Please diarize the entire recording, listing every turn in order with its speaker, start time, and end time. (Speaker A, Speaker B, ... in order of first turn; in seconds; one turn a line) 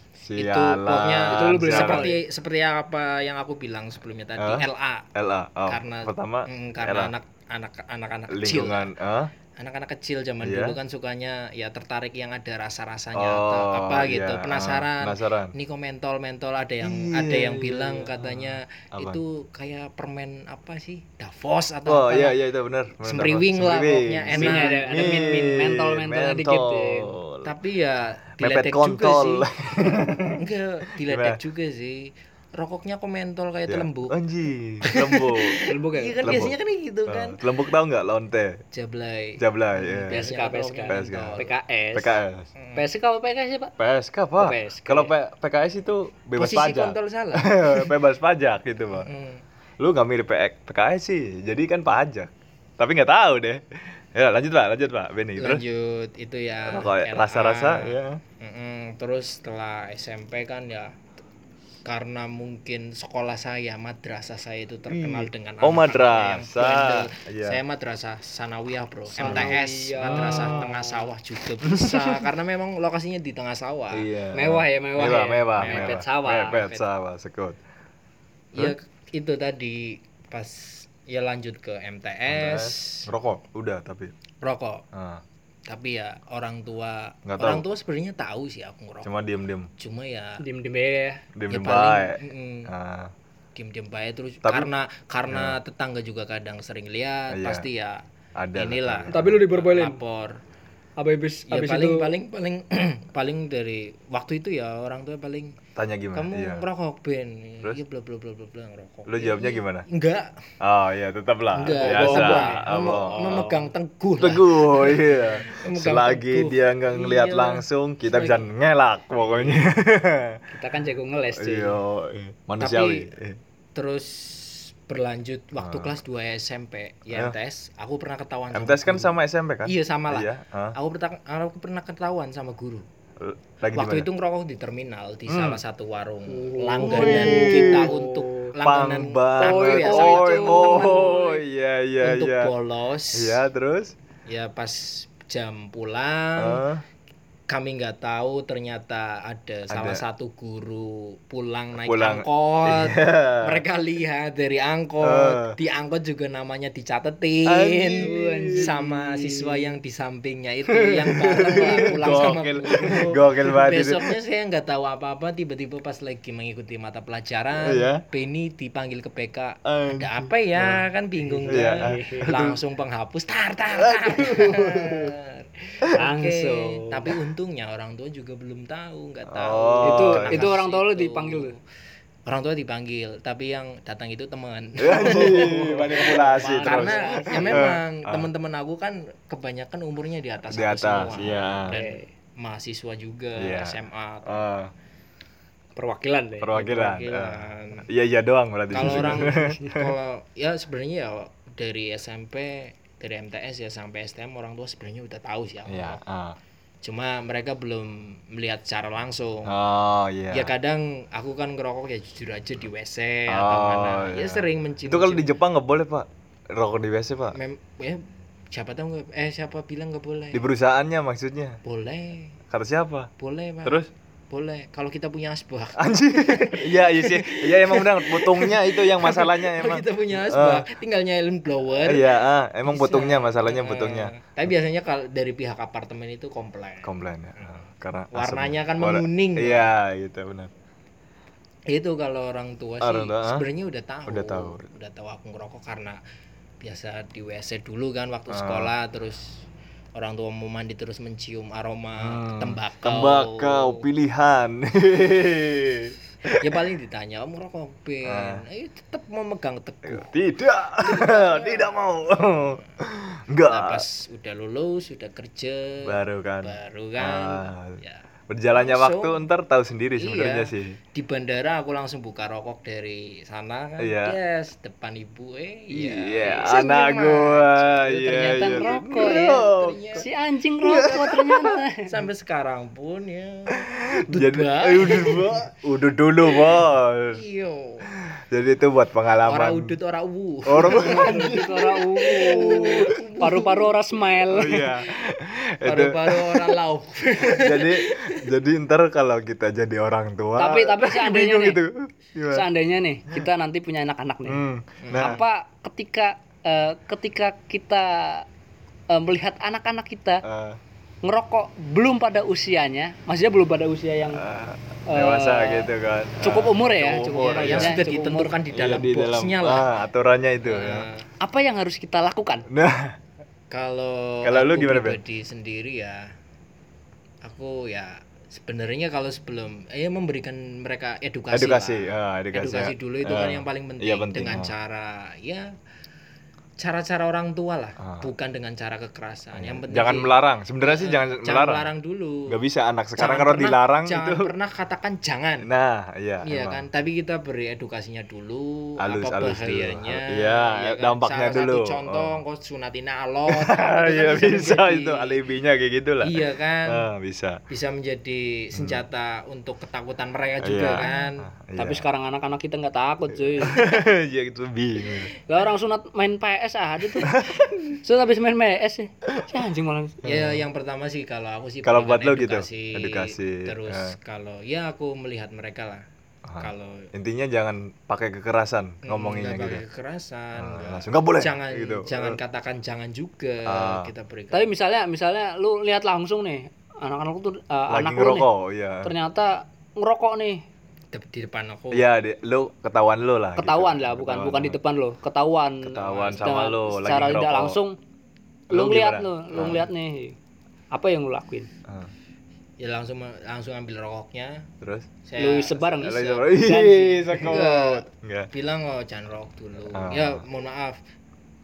Speaker A: 0.2-2.1
Speaker B: 0.3-5.1
Speaker C: 1.3-2.2
Speaker A: 4.4-7.1
Speaker B: 5.7-8.9
Speaker A: 8.3-9.3
Speaker B: 9.5-22.4
Speaker A: 10.4-10.8
Speaker A: 13.1-15.5
Speaker A: 16.8-19.2
Speaker A: 21.9-27.5
Speaker B: 23.0-25.3
Speaker C: 24.3-27.1
Speaker B: 27.4-34.2
Speaker A: 28.4-30.4
Speaker A: 31.0-31.4
Speaker A: 33.7-35.6
Speaker B: 34.8-37.4
Speaker C: 35.6-36.3
Speaker A: 36.2-36.5
Speaker A: 37.1-38.6
Speaker B: 38.7-41.5
Speaker A: 39.4-40.2
Speaker C: 40.0-42.2
Speaker A: 40.9-41.4
Speaker A: 41.9-42.5
Speaker B: 42.6-42.8
Speaker C: 42.8-43.7
Speaker A: 43.8-49.1
Speaker C: 44.4-45.1
Speaker B: 46.4-47.9
Speaker B: 48.9-49.4
Speaker A: 49.8-55.6
Speaker B: 55.4-61.0
Speaker A: 56.6-58.2
Speaker B: 61.9-74.1
Speaker A: 64.9-67.6
Speaker C: 69.2-71.0
Speaker A: 69.2-70.7
Speaker A: 71.6-72.2
Speaker A: 73.9-77.6
Speaker C: 74.3-76.6
Speaker B: 75.6-76.8
Speaker B: 78.5-83.1
Speaker A: 82.3-84.1
Speaker B: 84.4-84.8
Speaker A: 84.9-85.2
Speaker B: 85.7-89.1
Speaker A: 87.2-87.6
Speaker A: 89.0-89.7
Speaker B: 89.8-90.4
Speaker C: 90.4-91.2
Speaker A: 91.3-93.1
Speaker B: 91.5-92.7
Speaker B: 93.5-98.0
Speaker A: 94.4-94.7
Speaker A: 95.3-95.6
Speaker A: 97.3-97.7
Speaker A: 98.4-99.5
Speaker B: 98.5-100.4
Speaker C: 99.1-100.0
Speaker C: 101.0-102.1
Speaker B: 101.5-105.5
Speaker A: 105.8-106.6
Speaker B: 106.1-110.3
Speaker A: 109.0-109.8
Speaker A: 110.6-113.5
Speaker B: 111.5-118.5
Speaker C: 111.6-113.7
Speaker A: 114.2-120.4
Speaker C: 120.5-121.8
Speaker A: 121.3-123.4
Speaker B: 122.6-123.1
Speaker B: 123.7-132.8
Speaker A: 125.6-126.0
Speaker A: 128.5-130.8
Speaker A: 133.2-134.1
Speaker B: 133.7-141.3
Speaker A: 135.3-135.6
Speaker C: 136.3-138.5
Speaker A: 136.8-142.5
Speaker C: 139.4-141.3
Speaker B: 142.0-143.4
Speaker A: 143.1-143.9
Speaker B: 144.3-146.6
Speaker A: 146.4-146.8
Speaker B: 147.5-181.6
Speaker A: 149.7-150.0
Speaker A: 151.8-153.6
Speaker A: 155.0-155.6
Speaker A: 157.5-158.7
Speaker C: 158.0-158.9
Speaker C: 159.4-159.7
Speaker A: 160.7-164.1
Speaker C: 161.6-163.0
Speaker A: 167.6-168.0
Speaker A: 169.6-170.8
Speaker C: 171.4-172.3
Speaker A: 171.5-172.6
Speaker A: 173.7-175.1
Speaker C: 175.9-177.1
Speaker A: 179.3-180.5
Speaker C: 179.8-181.5
Speaker B: 182.2-194.4
Speaker A: 184.8-188.3
Speaker C: 185.1-187.8
Speaker A: 190.5-191.8
Speaker C: 191.7-192.1
Speaker A: 193.4-194.7
Speaker C: 195.8-196.5
Speaker A: 196.4-199.9
Speaker B: 196.5-197.9
Speaker B: 198.7-206.0
Speaker A: 205.7-206.4
Speaker B: 206.8-209.5
Speaker A: 209.4-210.5
Speaker B: 210.3-215.3
Speaker A: 213.3-217.3
Speaker B: 217.3-220.4
Speaker A: 220.3-221.6
Speaker B: 221.6-222.4
Speaker A: 222.5-223.1
Speaker B: 223.2-239.7
Speaker A: 223.6-223.9
Speaker A: 225.8-230.6
Speaker A: 231.7-234.1
Speaker A: 236.8-240.5
Speaker B: 241.7-246.0
Speaker A: 242.8-243.4
Speaker A: 244.1-244.7
Speaker B: 246.6-249.4
Speaker A: 248.3-248.7
Speaker B: 249.9-253.8
Speaker A: 252.0-256.6
Speaker B: 256.4-260.1
Speaker A: 258.0-258.4
Speaker A: 259.8-263.8
Speaker B: 260.8-261.8
Speaker B: 262.3-262.6
Speaker B: 263.4-269.2
Speaker A: 265.8-270.8
Speaker B: 270.0-280.1
Speaker A: 273.8-274.1
Speaker A: 275.7-280.0
Speaker C: 278.3-281.9
Speaker A: 280.6-281.6
Speaker B: 281.8-285.5
Speaker A: 283.5-287.2
Speaker B: 287.1-287.9
Speaker A: 287.9-289.8
Speaker B: 289.2-293.8
Speaker A: 290.4-293.0
Speaker C: 290.7-294.8
Speaker A: 294.2-296.6
Speaker B: 295.6-298.2
Speaker A: 297.2-302.4
Speaker C: 300.4-301.6
Speaker C: 302.3-304.4
Speaker A: 304.2-305.2
Speaker B: 304.8-305.2
Speaker C: 304.9-308.2
Speaker C: 308.9-310.2
Speaker A: 310.2-310.6
Speaker C: 311.0-314.2
Speaker A: 314.1-317.8
Speaker C: 314.9-318.4
Speaker B: 317.2-319.7
Speaker A: 318.5-320.9
Speaker B: 320.4-321.1
Speaker C: 321.2-322.5
Speaker A: 322.5-322.9
Speaker B: 323.5-326.1
Speaker A: 324.2-325.0
Speaker B: 327.2-335.5
Speaker A: 331.3-334.5
Speaker B: 336.6-342.4
Speaker A: 339.3-341.7
Speaker A: 342.3-344.3
Speaker B: 343.0-345.5
Speaker A: 345.4-346.6
Speaker B: 346.2-355.2
Speaker A: 348.8-352.1
Speaker A: 353.3-357.4
Speaker B: 356.0-356.9
Speaker B: 357.5-361.2
Speaker A: 358.5-358.8
Speaker A: 360.4-361.9
Speaker C: 361.6-363.7
Speaker A: 363.4-365.1
Speaker C: 365.2-367.1
Speaker A: 367.0-367.8
Speaker C: 367.8-370.0
Speaker A: 369.1-369.4
Speaker A: 370.0-370.4
Speaker B: 370.0-375.9
Speaker A: 371.6-373.9
Speaker A: 376.2-379.6
Speaker B: 376.4-376.9
Speaker B: 378.8-384.5
Speaker A: 380.4-382.2
Speaker A: 383.5-383.9
Speaker C: 384.3-388.3
Speaker A: 387.7-388.9
Speaker C: 388.8-390.4
Speaker B: 390.9-391.9
Speaker A: 391.7-394.6
Speaker C: 393.4-397.8
Speaker A: 395.6-397.6
Speaker A: 398.5-399.7
Speaker C: 398.5-400.1
Speaker C: 400.7-401.5
Speaker A: 401.6-401.9
Speaker B: 402.6-404.5
Speaker A: 404.6-404.9
Speaker B: 405.0-406.3
Speaker C: 405.2-407.4
Speaker A: 405.8-408.3
Speaker B: 407.2-410.8
Speaker A: 409.7-410.2